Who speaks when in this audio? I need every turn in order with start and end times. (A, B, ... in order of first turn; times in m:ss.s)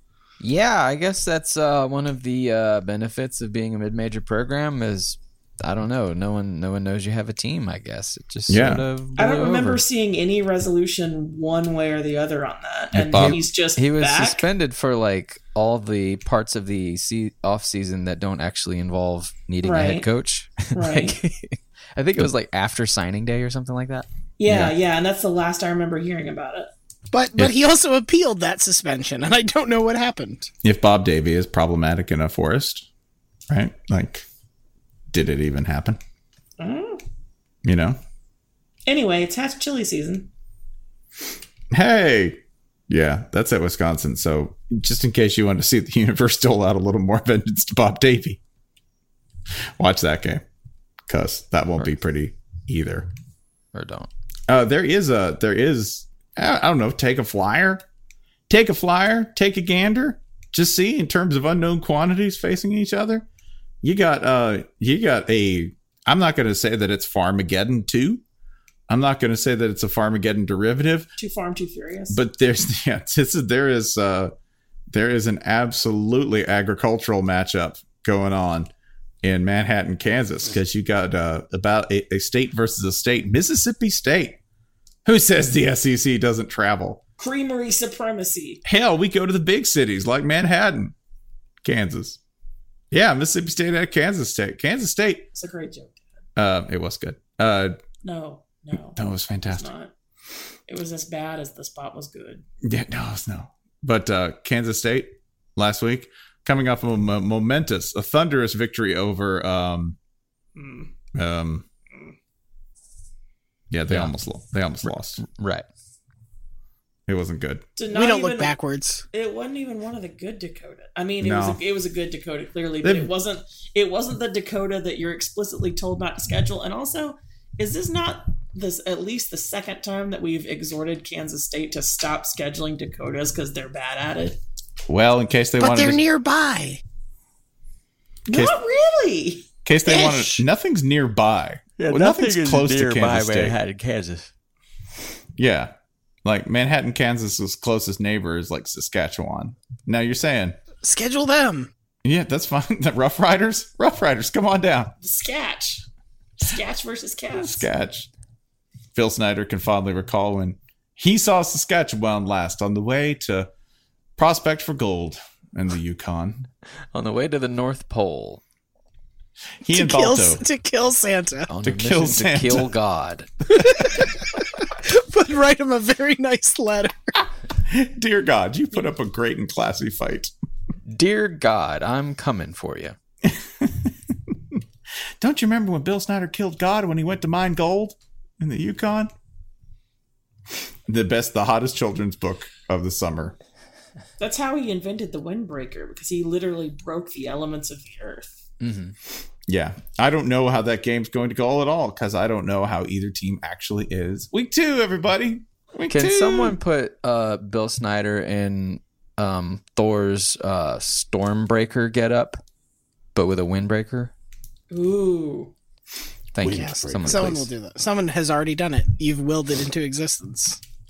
0:00.4-0:09.8 A
0:08.5-0:08.8 B
0:09.2-0:14.4 C
0:12.9-0:13.4 B
0:13.1-0:24.1 A
0:19.6-0:20.1 C
0:20.7-0:21.2 C
0:24.4-0:26.7 C
0:27.1-0:30.5 D
0:30.6-0:32.9 B
0:33.5-0:34.2 B
0:35.1-0:36.0 B
0:36.6-0:37.0 C
0:37.6-0:38.0 B
0:38.9-0:40.3 C
0:41.7-0:48.4 B
0:49.8-0:50.4 B
0:51.1-0:53.1 B
0:53.7-0:54.1 A
0:54.5-0:57.8 B
0:58.5-1:03.2 B
1:03.8-1:08.2 B
1:08.9-1:11.1 B
1:11.2-1:12.2 C
1:12.1-1:14.3 B
1:14.9-1:18.7 B
1:19.2-1:24.4 B
1:25.0-1:27.0 B
1:27.2-1:28.6 C
1:28.6-1:30.9 B
1:31.6-1:32.2 B
1:32.9-1:35.3 B
1:35.3-1:36.0 C
1:36.4-1:37.8 B
1:38.0-1:39.9 C
1:39.0-1:39.7 B
1:40.7-1:42.4 C
1:42.6-1:50.0 B
1:50.6-1:50.9 C
1:51.1-1:51.6 B
1:53.7-1:55.2 B
1:53.9-1:54.1 A
1:54.9-1:55.7 A
1:57.1-1:57.6 B
1:57.8-1:58.6 C
1:57.9-1:59.0 D
1:59.1-2:14.4 C
2:01.2-2:01.6 B
2:02.8-2:03.1 B
2:14.9-2:16.0 B
2:15.6-2:16.8 D
2:18.3-2:19.4 C
2:18.3-2:18.5 B
2:19.6-2:23.6 B
2:19.8-2:20.4 D
2:21.8-2:24.3 E
2:25.4-2:25.7 B
2:26.2-2:30.6 B
2:30.8-2:31.7 D
2:32.0-2:34.9 B
2:35.0-2:35.8 C
2:36.4-2:37.7 C
2:37.4-2:38.1 B
2:38.9-2:43.5 B
2:44.2-2:46.5 B
2:46.9-2:48.4 A
2:49.6-2:50.4 B
2:49.6-2:51.5 D
2:51.5-2:53.3 A
2:51.6-2:52.7 B
2:53.8-2:54.0 D
2:54.8-2:57.1 D
2:57.7-3:00.3 B
3:00.9-3:03.0 A
3:03.3-3:03.9 B
3:05.2-3:09.1 B
3:10.9-3:13.4 B
3:14.2-3:18.4 C
3:18.6-3:18.9 A
3:19.5-3:26.6 B
3:25.9-3:32.4 A
3:33.1-3:34.1 A
3:34.7-3:35.5 C
3:36.3-3:37.5 A
3:36.4-3:37.1 B
3:36.4-3:40.6 D